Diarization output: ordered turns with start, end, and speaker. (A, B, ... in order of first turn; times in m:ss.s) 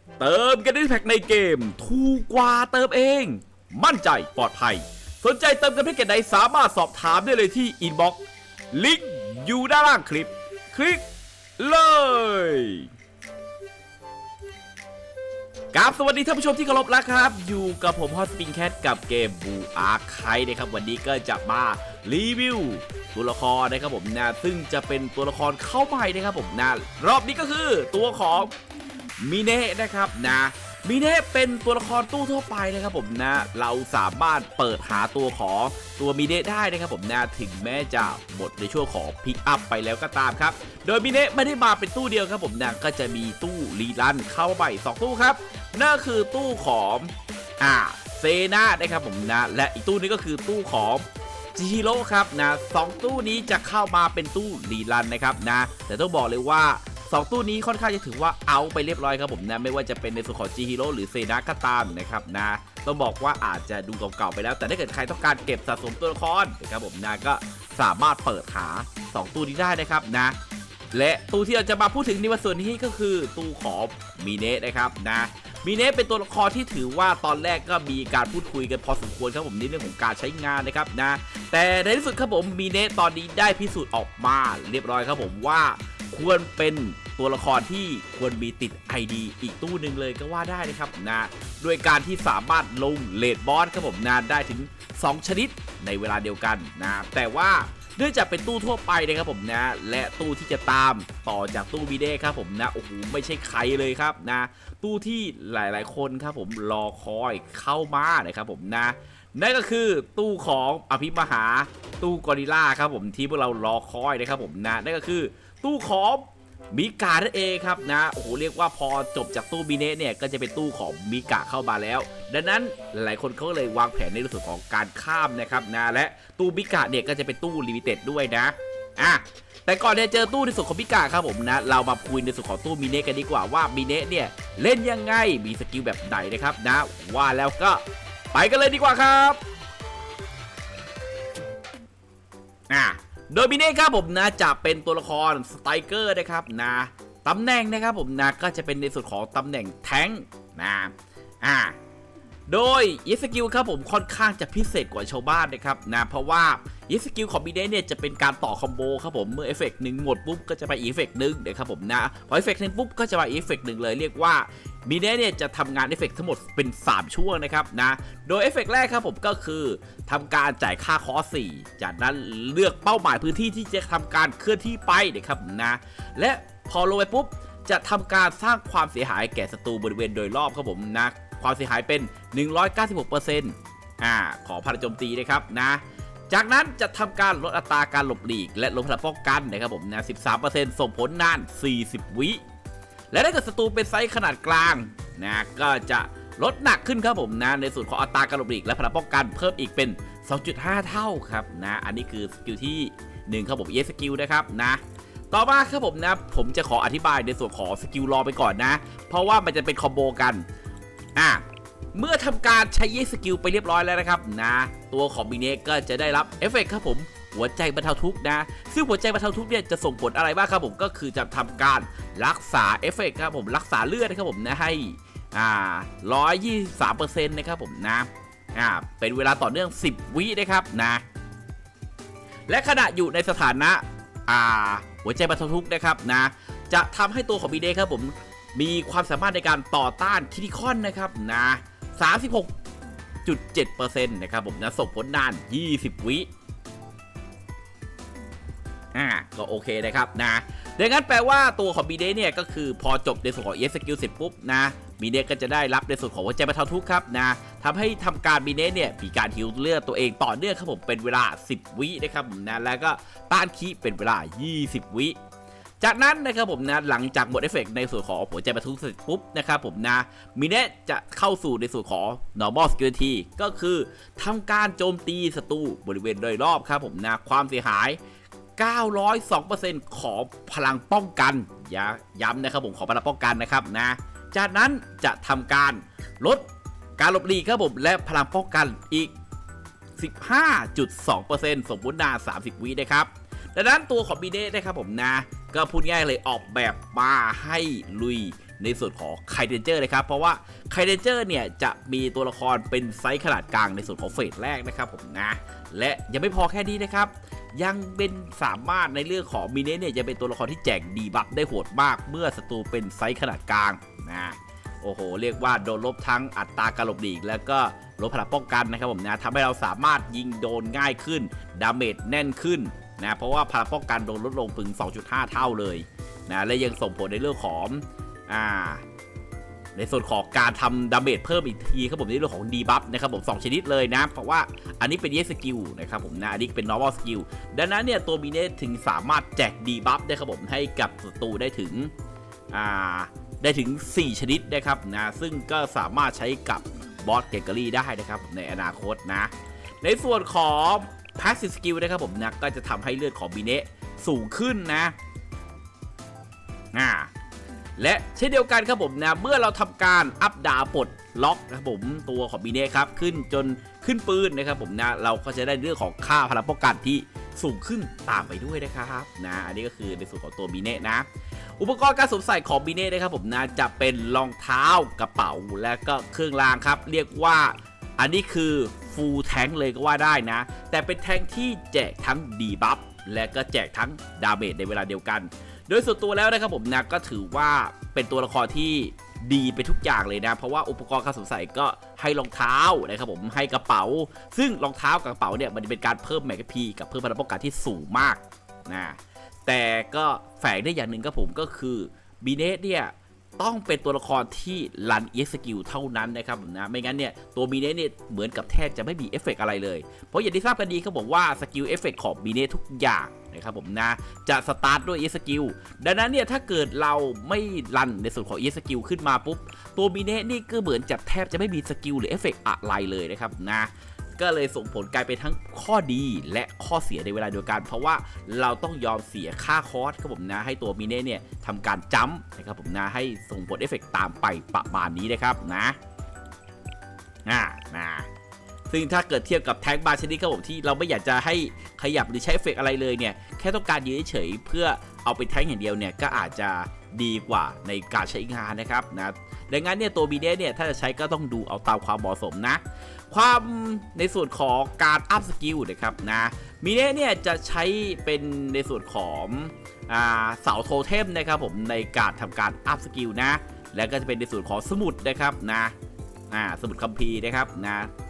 0:00.2-0:08.2 A
0:08.7-0:11.0 A
0:11.6-0:12.9 A
0:15.7-0:28.5 A
0:29.2-1:10.4 A
1:10.9-2:17.8 A
2:18.3-2:19.4 A
2:22.7-2:31.8 A
2:32.5-3:12.4 A
3:13.1-3:30.4 A
3:31.2-3:51.0 A
3:52.5-4:02.5 A
4:03.2-4:06.3 A
4:08.9-4:25.2 A
4:25.8-4:38.0 A
4:38.6-4:46.5 A
4:47.0-4:49.1 A
4:50.0-5:28.8 A
5:29.8-5:41.9 A
5:42.5-5:55.0 A
5:56.7-5:57.1 A
5:57.8-6:11.1 A
6:11.6-7:15.8 A
7:17.3-7:18.1 A
7:18.7-7:45.8 A
7:46.3-7:47.9 A